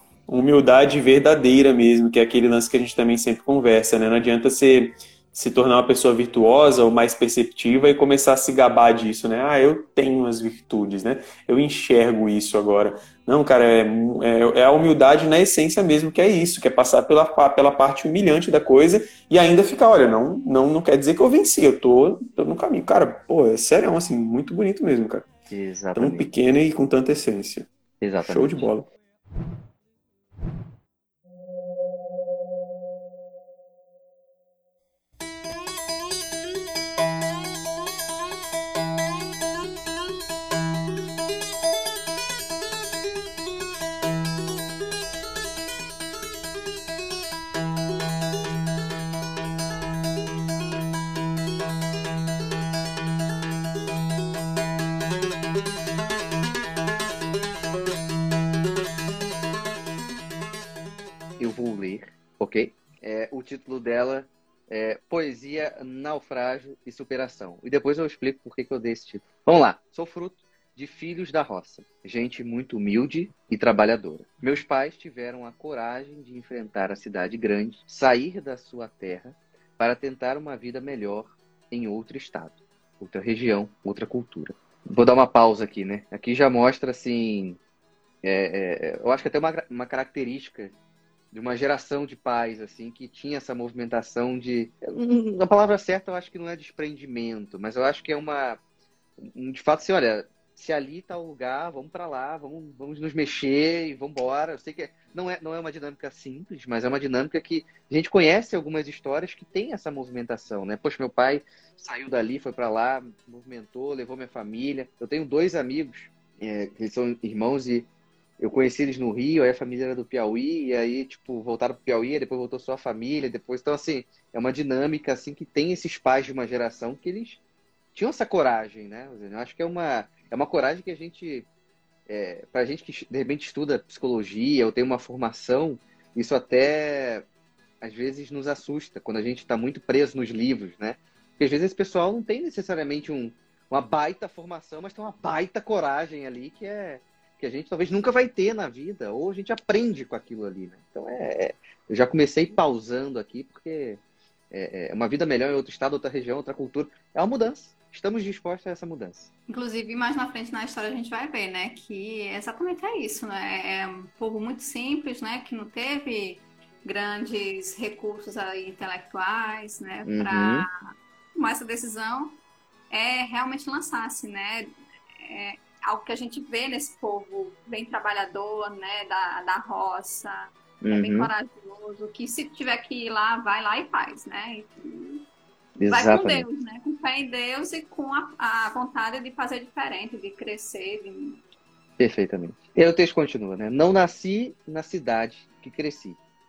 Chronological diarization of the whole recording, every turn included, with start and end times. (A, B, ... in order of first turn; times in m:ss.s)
0:00.3-0:25.3 A
0:25.5-0:26.3 B
0:25.9-0:27.7 A
0:28.0-0:28.7 B
0:28.2-0:28.9 A
1:01.4-1:27.6 B
1:28.2-1:30.7 B
1:31.3-1:38.6 B
1:39.2-1:57.9 B
1:58.4-2:07.4 B
2:07.9-2:11.5 B
2:12.1-2:17.2 B
2:17.8-2:34.0 B
2:34.5-2:39.3 B
2:39.5-2:52.4 C
2:50.0-2:50.7 B
2:52.9-3:05.2 C
3:00.8-3:01.3 B
3:05.8-3:06.4 B
3:05.9-3:11.4 C
3:12.0-3:16.2 B